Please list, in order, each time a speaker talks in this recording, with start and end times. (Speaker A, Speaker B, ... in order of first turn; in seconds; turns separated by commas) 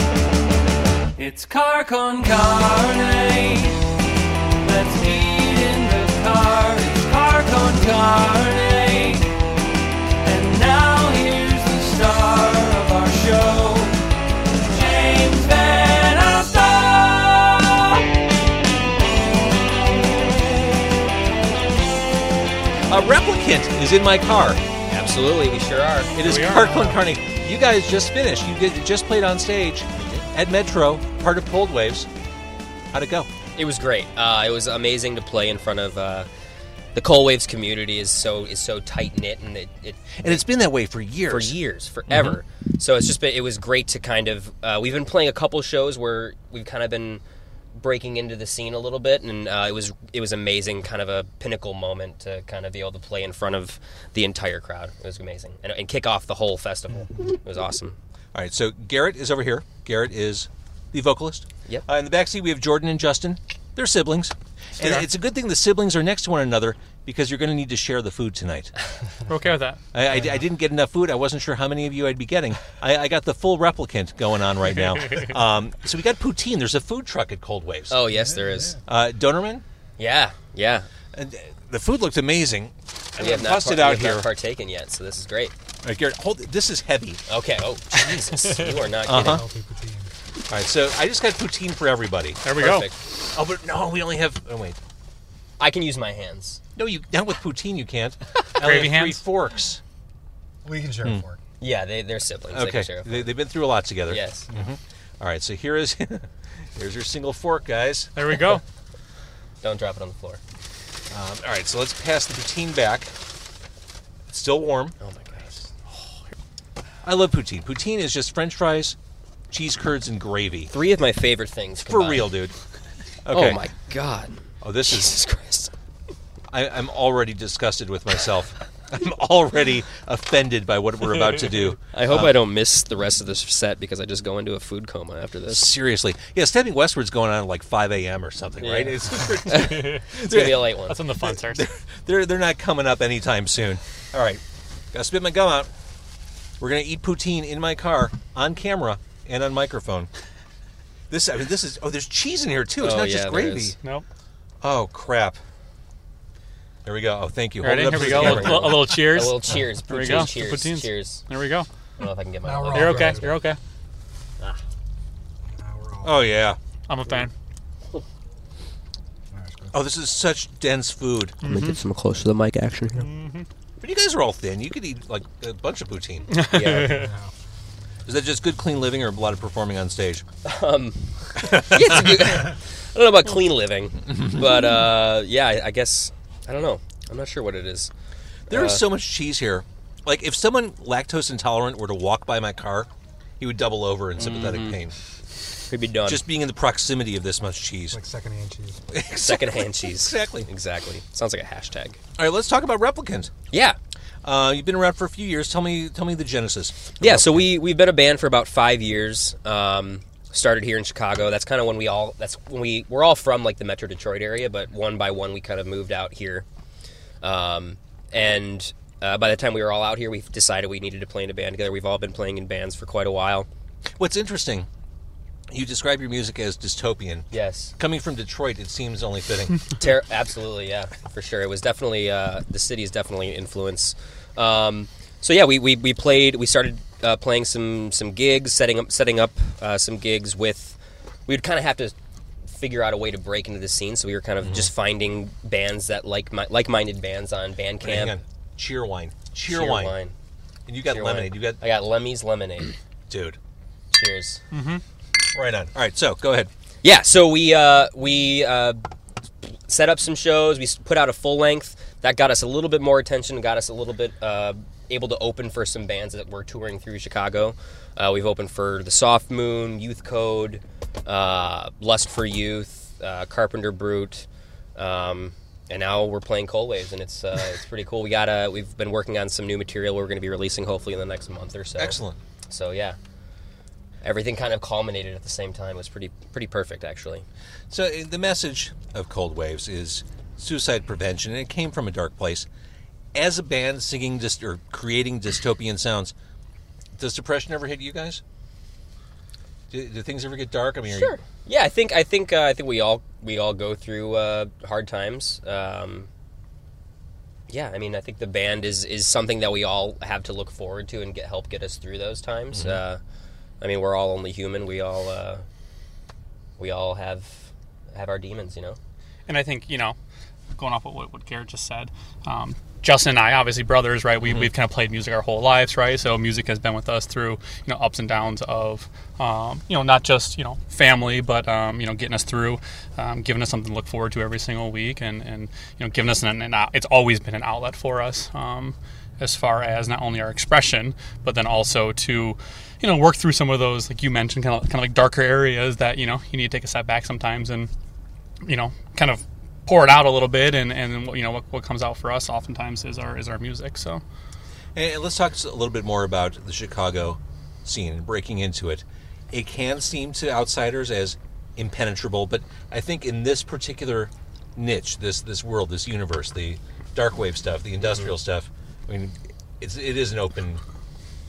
Speaker A: 1.1-3.9, Speaker A: 4.6-9.4, Speaker A: 10.2-18.1, Speaker B: 22.9-24.7, Speaker C: 24.9-26.1, Speaker B: 26.1-32.1, Speaker D: 26.2-27.0, Speaker B: 32.9-33.3, Speaker C: 33.5-36.3, Speaker C: 36.9-40.4, Speaker B: 40.2-41.6, Speaker C: 41.2-47.2, Speaker B: 42.1-42.4, Speaker C: 47.8-58.0, Speaker B: 58.3-68.7, Speaker D: 64.8-65.0, Speaker D: 69.3-69.8, Speaker B: 69.9-78.0, Speaker C: 77.9-78.8, Speaker E: 78.1-78.7, Speaker B: 78.9-79.6, Speaker C: 80.0-80.9, Speaker B: 81.1-84.3, Speaker C: 83.2-85.5, Speaker B: 85.8-87.2, Speaker C: 87.3-89.4, Speaker B: 89.1-89.4, Speaker E: 89.1-90.1, Speaker B: 90.5-92.6, Speaker D: 92.4-92.9, Speaker C: 92.5-92.9, Speaker B: 93.3-94.8, Speaker C: 95.6-96.6, Speaker B: 96.8-99.8, Speaker D: 98.6-99.2, Speaker E: 100.6-101.4, Speaker C: 101.6-103.4, Speaker B: 102.5-108.1, Speaker C: 104.1-104.5, Speaker D: 108.1-108.6, Speaker C: 109.6-110.4, Speaker B: 111.1-113.1, Speaker B: 114.3-115.0, Speaker C: 115.0-115.6, Speaker B: 117.0-119.0, Speaker B: 119.5-120.7, Speaker C: 120.7-122.3, Speaker B: 121.8-122.5, Speaker B: 123.2-123.6, Speaker C: 123.3-125.7, Speaker B: 124.6-125.1, Speaker B: 126.5-132.3, Speaker C: 131.9-135.7, Speaker B: 135.5-144.4, Speaker C: 138.6-141.0, Speaker D: 139.5-140.1, Speaker D: 140.8-141.6, Speaker B: 144.9-145.7, Speaker B: 146.6-150.1, Speaker B: 151.1-153.8, Speaker C: 152.8-153.8, Speaker B: 154.6-155.4, Speaker B: 156.8-159.0, Speaker D: 157.6-161.7, Speaker C: 157.9-161.2, Speaker C: 162.0-163.4, Speaker E: 162.4-163.4, Speaker D: 162.7-163.6, Speaker E: 165.5-166.3, Speaker B: 166.0-166.6, Speaker D: 166.9-167.3, Speaker E: 169.3-169.7, Speaker B: 169.7-171.3, Speaker D: 171.4-171.8, Speaker C: 171.4-173.0, Speaker D: 173.0-173.5, Speaker B: 173.8-176.3, Speaker D: 176.3-177.1, Speaker C: 176.5-177.1, Speaker E: 176.9-177.3, Speaker B: 178.1-180.2, Speaker C: 180.4-187.9, Speaker B: 181.5-182.0, Speaker C: 188.5-188.8, Speaker B: 188.5-192.9, Speaker B: 193.4-194.9, Speaker C: 195.7-196.2, Speaker B: 196.1-198.0, Speaker E: 197.9-198.8, Speaker B: 198.9-200.5, Speaker C: 199.2-202.0, Speaker B: 202.2-203.3, Speaker C: 203.5-203.8, Speaker B: 204.2-207.4, Speaker C: 207.0-216.4, Speaker C: 217.2-223.5, Speaker B: 224.0-224.7, Speaker B: 225.5-229.6, Speaker C: 227.3-227.7, Speaker C: 229.8-241.9, Speaker C: 242.5-248.2, Speaker B: 247.8-249.9, Speaker C: 249.4-250.1, Speaker B: 250.7-251.6, Speaker C: 250.8-252.8, Speaker B: 253.1-253.4, Speaker C: 253.9-254.4, Speaker D: 254.5-254.8, Speaker B: 255.3-256.5, Speaker C: 256.8-258.8, Speaker C: 259.7-282.0, Speaker B: 281.8-282.2, Speaker C: 282.5-283.0, Speaker C: 284.0-287.2, Speaker B: 287.7-292.4, Speaker B: 293.1-296.1, Speaker B: 296.9-298.2, Speaker B: 299.7-301.1, Speaker C: 300.9-306.1, Speaker C: 307.5-313.0, Speaker B: 312.5-312.8, Speaker C: 313.6-315.4, Speaker C: 316.6-318.8, Speaker D: 319.3-320.0, Speaker D: 320.5-347.7, Speaker D: 348.4-354.0, Speaker B: 354.8-370.6